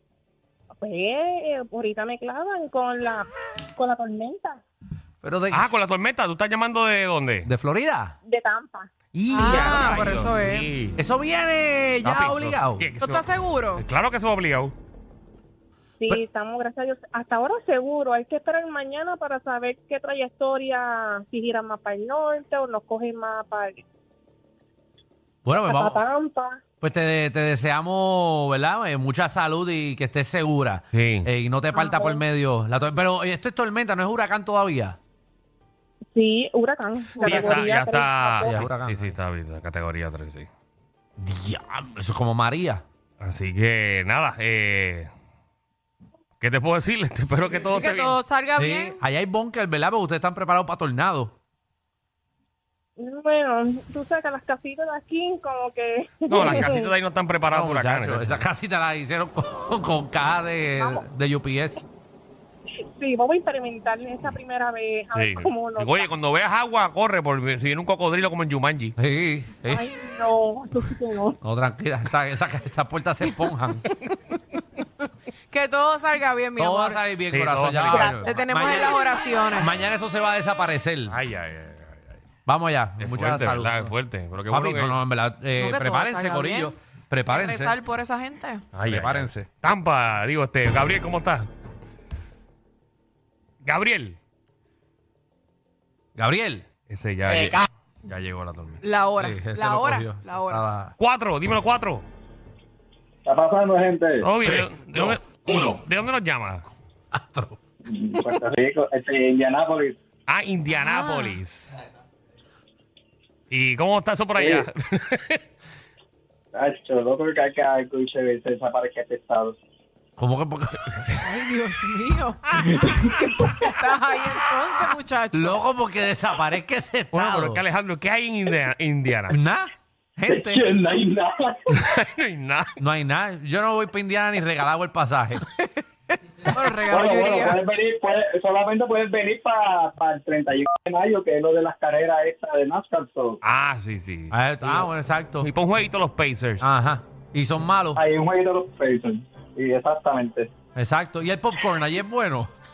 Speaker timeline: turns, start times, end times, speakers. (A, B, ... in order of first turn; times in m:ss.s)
0:00.8-0:04.6 A
0:05.2-0:05.7 B
0:05.5-0:07.5 C
0:07.4-0:08.1 B
0:08.2-0:08.9 A
0:09.1-0:11.0 C
0:09.3-0:10.6 D
0:11.0-0:12.9 B
0:12.0-0:14.7 C
0:12.1-0:12.5 D
0:13.0-0:13.8 D
0:16.0-0:23.8 A
0:25.4-0:26.0 B
0:25.7-0:26.6 A
0:26.8-0:35.0 B
0:30.9-0:31.3 C
0:31.7-0:32.2 A
0:36.1-0:38.6 A
0:37.1-0:40.5 C
0:37.2-0:37.7 B
0:38.4-0:39.2 B
0:41.2-0:42.8 B
0:43.2-0:45.1 C
0:46.4-0:48.2 C
0:47.6-0:49.0 D
0:48.6-0:51.3 B
0:53.0-0:56.9 A
0:56.3-0:58.4 C
0:57.5-1:01.8 B
1:00.8-1:01.0 A
1:03.0-1:06.1 A
1:05.1-1:08.9 C
1:09.0-1:09.9 B
1:09.7-1:11.4 A
1:11.4-1:13.8 B
1:15.5-1:17.0 D
1:16.6-1:19.0 B
1:17.3-1:18.2 C
1:17.9-1:19.7 D
1:19.5-1:21.2 B
1:21.1-1:22.2 C
1:22.4-1:23.9 B
1:23.0-1:25.0 C
1:24.5-1:27.8 B
1:25.5-1:26.7 D
1:27.2-1:28.6 D
1:28.7-1:31.5 C
1:28.9-1:29.5 B
1:33.6-1:34.2 C
1:36.2-1:36.6 B
1:36.9-1:38.8 C
1:38.8-1:40.6 D
1:39.2-1:41.0 B
1:41.0-1:42.0 C
1:43.2-1:44.3 E
1:44.2-1:46.6 C
1:44.4-1:45.2 B
1:47.1-1:47.6 B
1:47.8-1:50.0 E
1:50.3-1:51.8 C
1:50.8-1:51.4 D
1:53.5-1:55.4 C
1:54.4-1:54.6 E
1:56.5-1:59.6 E
2:00.2-2:01.1 B
2:01.2-2:05.6 D
2:02.5-2:03.3 E
2:05.3-2:07.6 B
2:07.1-2:09.4 C
2:09.3-2:10.6 B
2:10.3-2:11.5 E
2:11.7-2:12.8 C
2:12.8-2:15.4 B
2:16.3-2:17.6 D
2:16.9-2:23.4 E
2:23.4-2:24.8 C
2:24.3-2:25.5 B
2:25.4-2:26.7 C
2:26.6-2:28.0 B
2:27.9-2:30.5 E
2:30.7-2:32.5 B